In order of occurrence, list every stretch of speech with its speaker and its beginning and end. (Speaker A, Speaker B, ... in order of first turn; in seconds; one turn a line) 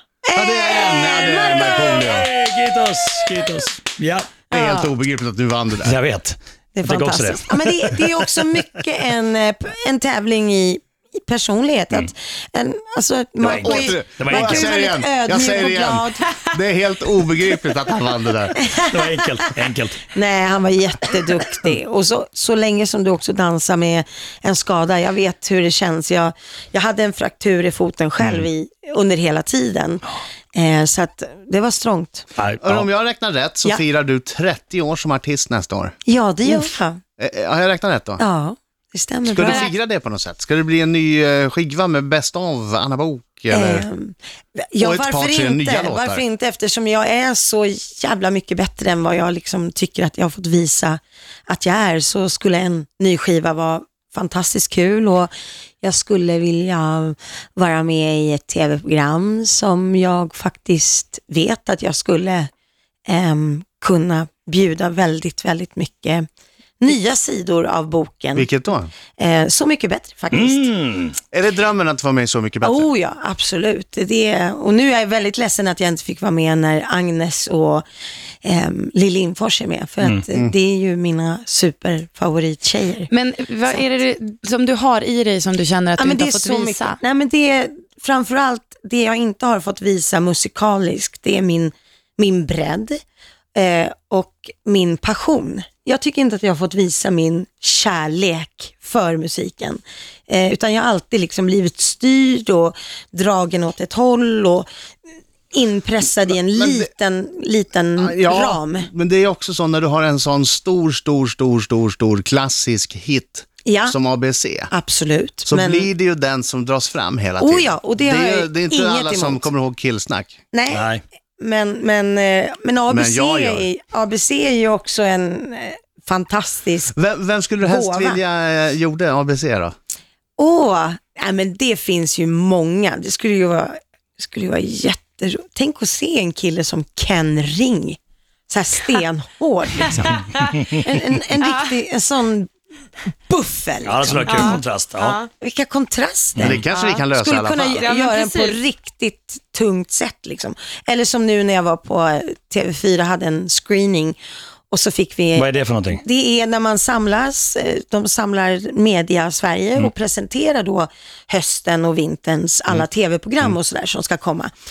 Speaker A: 0.2-2.2
Speaker B: 0.3-2.3
Speaker C: 1.6-4.4
Speaker A: 4.5-4.9
Speaker B: 4.5-6.0
Speaker C: 5.8-8.0
Speaker A: 6.7-16.3
Speaker C: 13.4-14.8
Speaker B: 13.4-18.6
Speaker A: 18.6-19.4
Speaker C: 18.9-20.0
Speaker A: 20.1-32.3
Speaker C: 32.4-32.9
Speaker B: 32.6-35.9
Speaker A: 36.0-37.0
Speaker B: 37.2-38.2
Speaker A: 38.2-39.7
Speaker B: 39.3-43.9
Speaker A: 43.5-55.3
Speaker B: 44.8-46.2
Speaker A: 55.8-62.5
Speaker A: 63.1-66.2
Speaker A: 66.8-68.5
Speaker B: 68.3-68.9
Speaker A: 69.2-70.7
Speaker C: 70.3-71.2
Speaker B: 71.3-72.9
Speaker A: 72.6-77.8
Speaker A: 78.4-83.1
Speaker D: 83.1-87.0
Speaker A: 86.0-93.0
Speaker A: 93.5-104.7
Speaker A: 105.5-108.9
Speaker B: 106.5-106.8
Speaker B: 108.0-114.7
Speaker A: 113.6-114.0
Speaker A: 114.7-115.9
Speaker B: 115.5-120.4
Speaker A: 117.4-119.5
Speaker A: 120.5-120.9
Speaker C: 120.7-121.0
Speaker A: 121.4-126.9
Speaker B: 122.9-123.7
Speaker B: 127.0-129.7
Speaker A: 127.6-128.2
Speaker A: 130.4-138.0
Speaker A: 138.5-142.5
Speaker D: 140.1-140.4
Speaker A: 143.3-144.6
Speaker C: 143.8-145.2
Speaker D: 144.2-145.3
Speaker A: 145.4-154.2
Speaker B: 146.4-147.8
Speaker D: 146.7-147.0
Speaker D: 147.8-148.6
Speaker A: 154.7-164.5
Speaker C: 155.3-156.0